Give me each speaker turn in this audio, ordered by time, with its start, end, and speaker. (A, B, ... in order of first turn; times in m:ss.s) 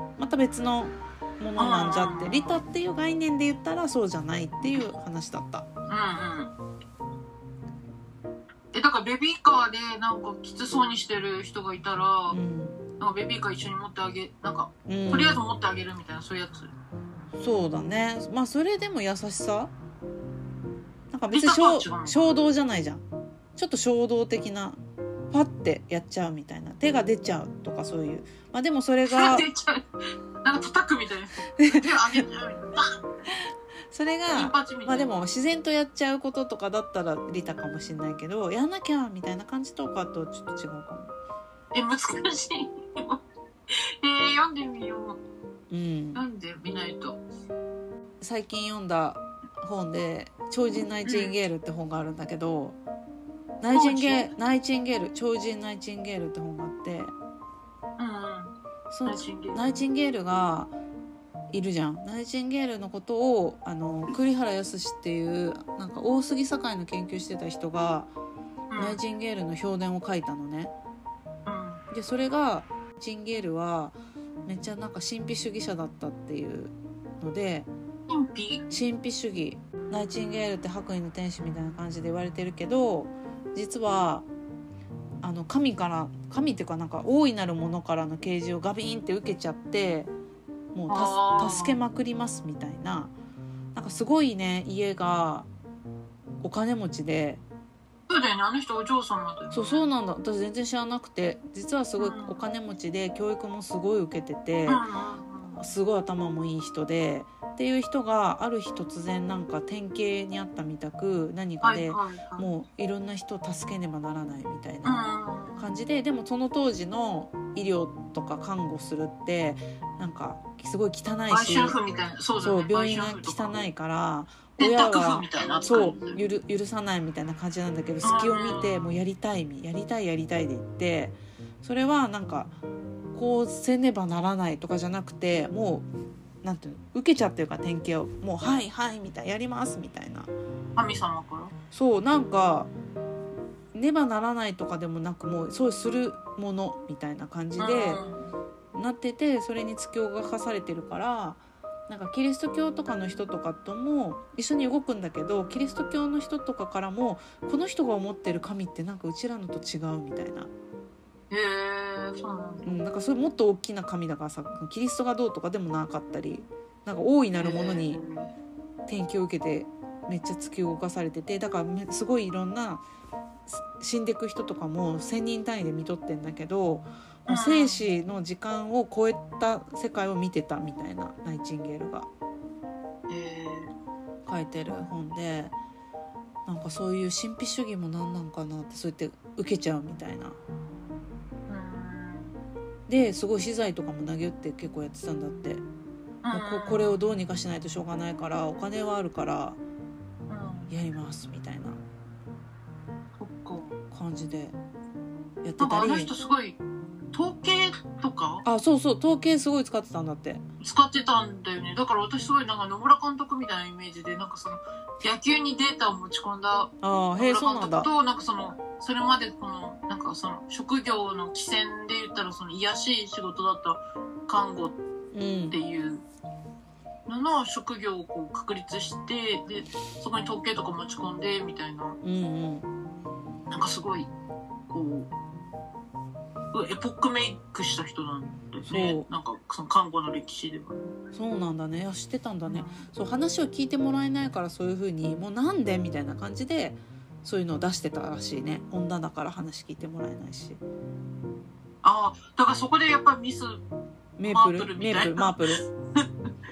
0:00.2-0:05.7 A
0:01.6-0:02.6 B
0:05.9-0:06.5 B
0:08.7-0:12.4 B
0:12.3-0:12.8 A
0:13.0-0:16.7 B
0:14.9-0:15.4 A
0:17.4-0:19.7 A
0:21.1-0:23.0 A
0:21.3-0:22.3 B
0:23.6-0:24.8 A
0:25.3-0:29.5 A
0:29.0-0:29.9 B
0:30.4-0:32.9 B
0:31.6-0:32.2 A
0:33.9-0:41.1 A
0:34.3-0:35.2 B
0:41.7-0:45.2 B
0:45.7-0:46.2 A
0:46.1-0:47.2 B
0:48.2-0:52.8 A
0:51.0-0:51.4 B
0:53.6-0:57.1 A
0:53.7-0:54.3 B
0:58.0-0:58.5 B
0:58.9-1:00.7 A
0:59.0-0:59.7 B
1:01.5-1:08.1 A
1:08.7-1:09.0 B
1:08.8-1:10.7 A
1:11.4-1:11.8 B
1:11.9-1:17.7 A
1:18.1-1:18.6 B
1:18.7-1:24.3 A
1:25.2-1:30.1 A
1:30.7-1:33.1 A
1:30.9-1:31.8 B
1:33.7-1:35.5 A
1:36.4-1:37.4 A
1:38.1-1:39.9 B
1:39.5-1:44.8 A
1:42.0-1:42.4 B
1:44.6-1:45.7 B
1:45.6-2:01.8 A
1:51.6-1:52.5 B
1:54.8-1:55.7 B
2:01.3-2:03.6 B
2:02.4-2:12.5 A
2:04.6-2:06.2 B
2:08.0-2:08.9 B
2:13.1-2:15.9 A
2:16.4-2:20.3 A
2:20.8-2:21.5 B
2:21.7-2:22.7 A
2:23.7-2:28.0 A
2:27.6-2:28.4 B
2:28.7-2:40.5 A
2:41.3-2:42.8 B
2:42.6-2:48.0 A
2:47.4-2:48.3 B
2:48.9-2:52.8 A
2:53.5-3:02.1 A
2:57.3-2:57.8 B
3:03.1-3:03.7 B
3:04.2-3:05.6 A
3:06.4-3:10.4 A
3:11.5-3:12.3 B
3:12.9-3:15.6 A
3:16.2-3:17.0 B
3:16.3-3:19.6 A
3:20.3-3:20.7 B
3:20.7-3:21.8 A
3:23.2-3:23.8 B
3:23.9-3:24.6 A
3:25.4-3:26.1 A
3:25.6-3:26.6 B
3:27.1-3:28.4 B
3:28.4-3:30.4 A
3:30.6-3:44.8 B
3:36.8-3:37.9 A
3:45.1-3:45.6 A
3:45.5-3:46.0 B
3:47.0-3:52.0 B
3:52.0-3:52.6 A
3:53.5-3:54.1 B
3:54.7-3:55.1 B
3:56.5-4:00.9 B
3:58.6-3:59.1 A
4:01.1-4:10.6 A
4:02.4-4:02.9 B
4:11.8-4:13.6 B
4:14.2-4:15.6 A
4:14.2-4:15.4 B